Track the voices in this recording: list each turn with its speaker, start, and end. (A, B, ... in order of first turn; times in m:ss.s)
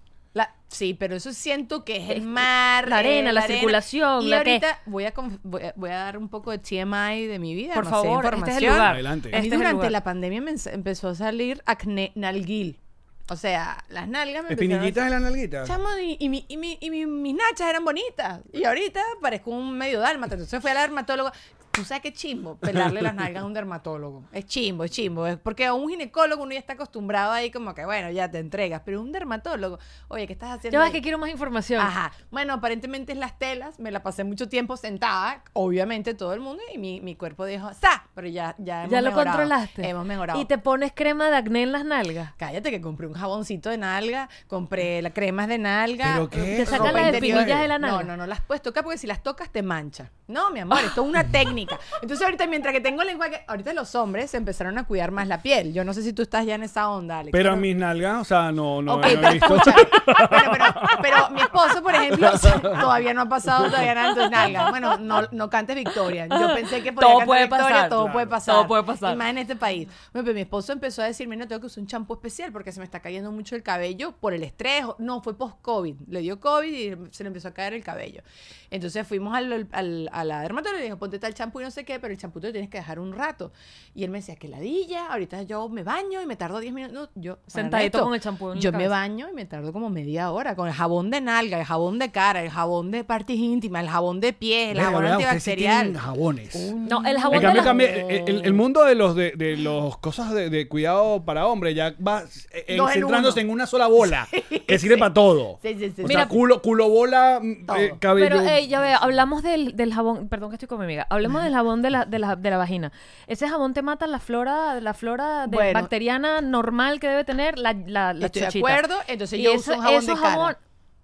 0:00.3-0:15.0 A
0:02.1-0:04.6 B
0:07.7-0:10.0 B
0:08.8-0:09.4 C
0:14.5-0:15.8 C
0:15.6-0:31.0 A
0:22.7-0:23.1 C
0:30.7-0:31.9 B
0:31.8-0:40.5 A
0:38.8-0:42.3 B
0:42.4-0:57.7 A
0:46.0-0:47.7 C
0:46.5-0:48.1 B
0:57.3-1:02.8 C
0:58.9-1:36.0 A
0:59.0-0:59.9 B
1:04.4-1:04.7 B
1:06.3-1:09.2 B
1:08.0-1:08.4 C
1:27.5-1:29.0 B
1:34.7-1:36.7 C
1:36.5-1:38.6 A
1:36.9-1:37.8 B
1:37.3-1:48.6 C
1:42.7-1:43.4 A
1:44.0-1:46.3 A
1:46.0-1:46.4 B
1:47.7-1:48.0 A
1:48.1-1:58.8 B
1:55.5-1:55.9 A
1:58.2-2:00.5 A
1:59.4-2:00.6 B